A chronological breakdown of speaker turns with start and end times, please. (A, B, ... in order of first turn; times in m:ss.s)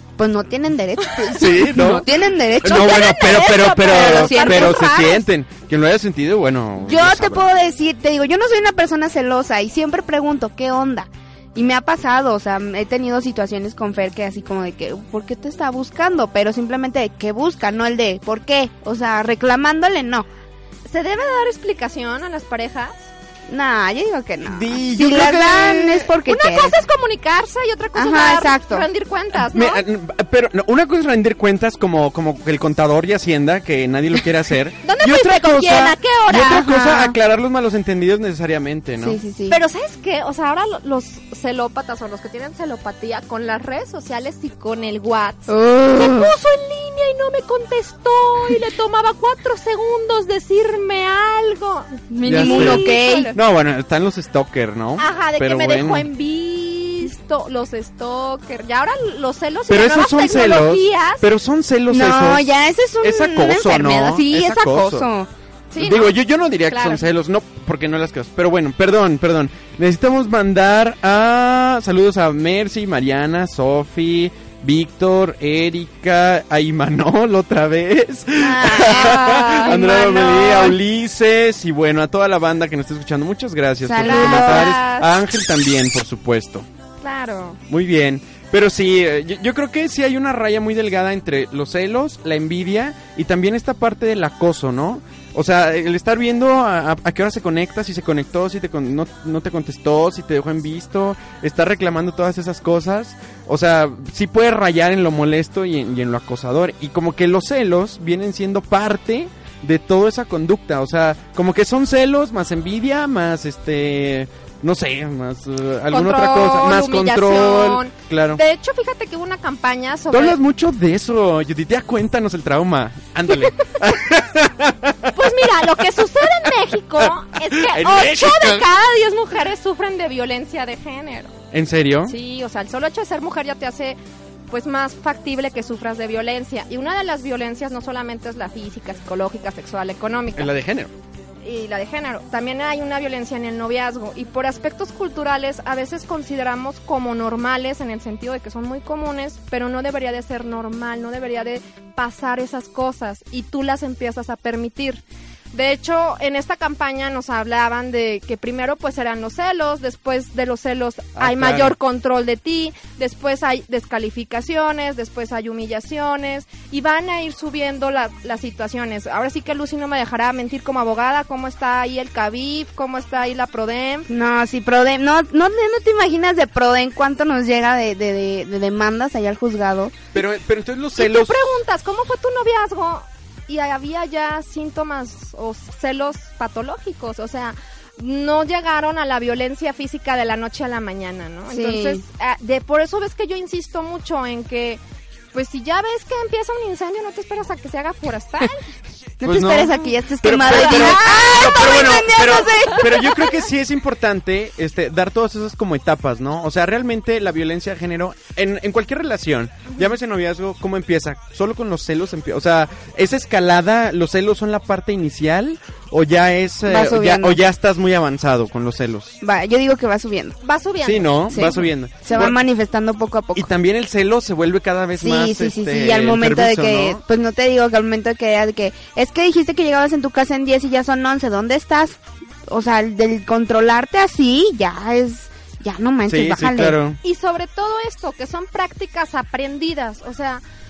0:00.2-0:04.9 A
0:01.3-0:02.1 B
0:02.6-0:07.5 B
0:02.6-0:05.2 C
0:06.8-0:20.3 A
0:20.9-0:23.1 C
0:23.5-0:26.8 A
0:24.4-0:26.1 B
0:26.3-0:29.8 C
0:28.0-0:28.9 A
0:29.4-0:39.2 B
0:34.8-0:36.6 C
0:36.4-0:37.2 A
0:39.0-0:39.6 A
0:39.5-0:53.4 C
0:45.5-0:46.3 A
0:52.1-0:53.3 A
0:52.3-0:56.1 B
0:55.0-1:01.2 C
0:59.7-1:05.1 B
1:01.9-1:05.3 A
1:05.7-1:06.1 C
1:05.8-1:26.7 B
1:06.7-1:07.0 C
1:18.4-1:19.8 A
1:18.8-1:20.8 C
1:23.8-1:24.7 A
1:24.0-1:25.1 C
1:27.0-1:27.6 C
1:27.7-1:58.4 B
1:55.9-2:00.4 C
2:00.1-2:05.7 B
2:05.1-2:11.3 C
2:07.5-2:08.7 B
2:11.5-2:12.2 B
2:12.1-2:14.0 C
2:14.5-2:20.5 C
2:20.4-2:20.9 B
2:21.4-2:35.0 C
2:35.5-2:54.1 C
2:41.2-2:41.8 B
2:54.1-3:00.0 A
3:00.1-3:01.4 B
3:01.0-3:14.8 C
3:11.5-3:12.0 A
3:15.3-3:18.6 C
3:19.2-3:23.3 A
3:19.2-3:39.2 B
3:20.4-3:21.9 C
3:36.7-3:37.4 A
3:39.2-3:40.4 A
3:40.4-3:41.6 C
3:40.8-3:42.4 B
3:41.3-3:43.5 A
3:43.4-3:47.0 B
3:45.0-3:56.8 A
3:56.1-3:57.0 B
3:57.0-4:00.4 C